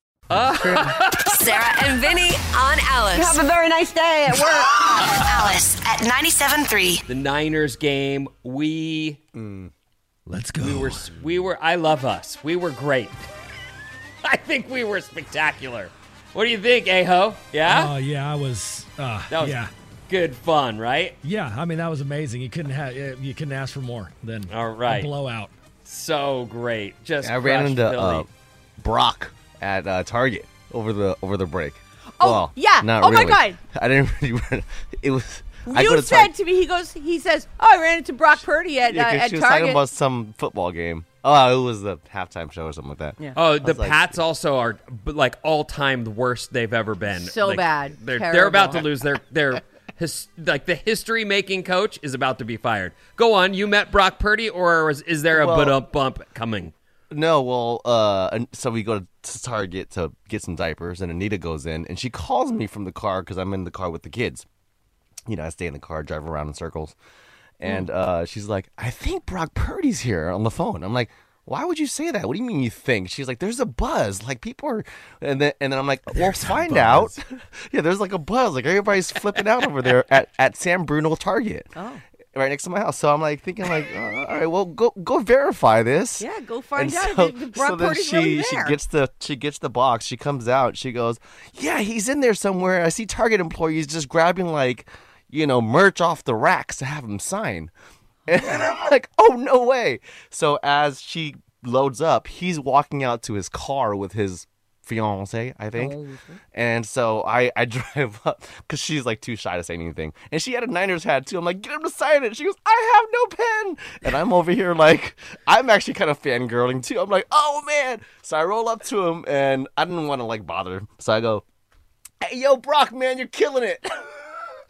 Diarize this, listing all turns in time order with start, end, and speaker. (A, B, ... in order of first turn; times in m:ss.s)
0:00.3-0:01.4 A
0:01.3-0:03.4 B
0:03.1-0:04.8 C
0:05.3-0:06.8 B
0:07.1-0:09.2 A
0:09.4-0:09.7 D
0:10.3-0:11.0 E
0:10.5-0:13.2 A
0:14.2-0:17.9 A
0:17.7-0:19.6 E
0:19.3-0:21.2 A
0:21.2-0:25.5 E
0:24.5-0:25.1 A
0:25.8-0:28.3 A
0:27.2-0:36.3 D
0:32.2-0:33.6 C
0:35.6-0:39.8 C
0:38.9-0:44.2 D
0:43.3-0:56.7 A
0:47.1-0:48.8 C
0:55.3-0:55.8 D
0:57.1-1:04.4 D
1:05.3-1:06.9 D
1:07.6-1:21.7 D
1:16.4-1:17.0 A
1:22.3-1:37.7 D
1:26.2-1:28.8 C
1:38.3-1:46.0 D
1:38.3-1:38.6 C
1:45.7-1:46.3 C
1:46.5-2:01.4 D
2:02.2-2:04.2 D